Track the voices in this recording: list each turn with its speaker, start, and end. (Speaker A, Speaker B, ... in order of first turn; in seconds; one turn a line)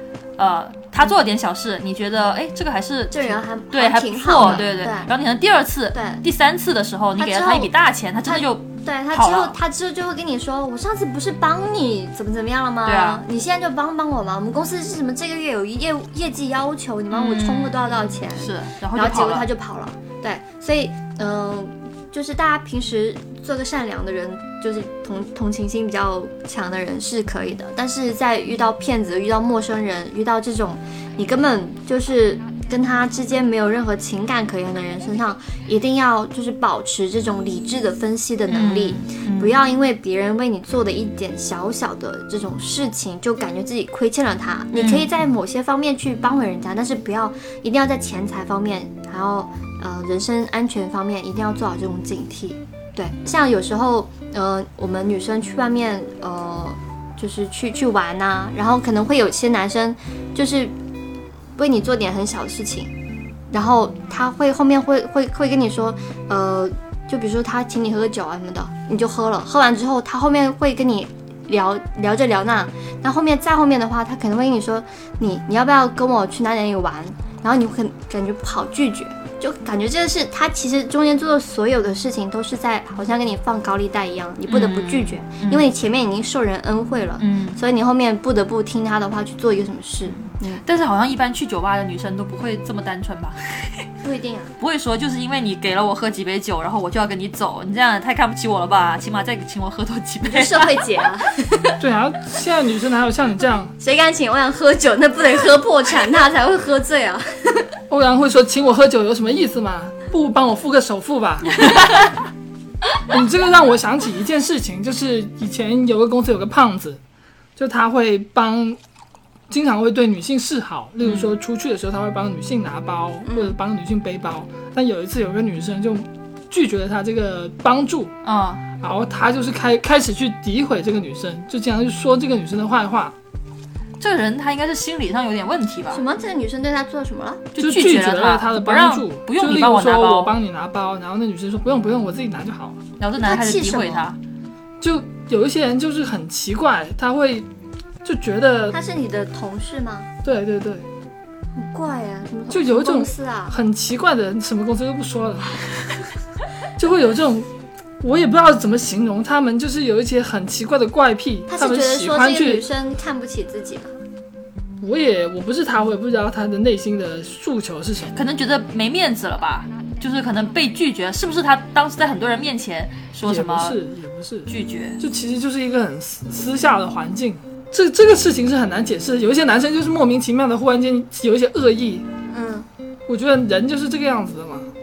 Speaker A: 0.4-9.6
Speaker B: 3.1-5.1
Speaker B: 5.9-6.2
Speaker B: 7.2-7.7
Speaker B: 8.2-60.7
Speaker A: 12.8-13.2
Speaker A: 17.1-17.8
Speaker A: 18.3-19.5
Speaker A: 38.5-39.6
Speaker A: 44.7-45.1
Speaker B: 61.6-62.9
Speaker B: 63.5-90.6
Speaker A: 84.5-85.7
Speaker A: 87.2-87.6
Speaker A: 90.1-93.8
Speaker B: 94.0-94.5
Speaker A: 94.6-100.9
Speaker B: 100.2-101.8
Speaker C: 101.8-103.7
Speaker B: 103.8-107.7
Speaker C: 107.9-111.7
Speaker C: 113.1-117.0
Speaker C: 117.5-118.8
Speaker C: 119.5-128.1
Speaker A: 121.0-121.3
Speaker B: 123.2-123.5
Speaker A: 128.2-128.6
Speaker C: 128.8-133.1
Speaker A: 134.0-136.0
Speaker B: 135.9-137.5
Speaker A: 137.5-140.3
Speaker C: 137.6-142.8
Speaker A: 143.0-144.2
Speaker B: 143.2-144.1
Speaker C: 144.8-147.5
Speaker C: 148.0-148.8
Speaker B: 148.7-150.1
Speaker C: 150.2-150.9
Speaker B: 151.6-153.6
Speaker C: 152.5-155.6
Speaker C: 156.8-157.5
Speaker C: 158.0-162.7
Speaker B: 161.5-163.9
Speaker C: 164.8-168.2
Speaker A: 168.1-173.8
Speaker C: 173.2-182.1
Speaker A: 174.5-175.0
Speaker B: 182.3-182.7
Speaker C: 183.1-184.7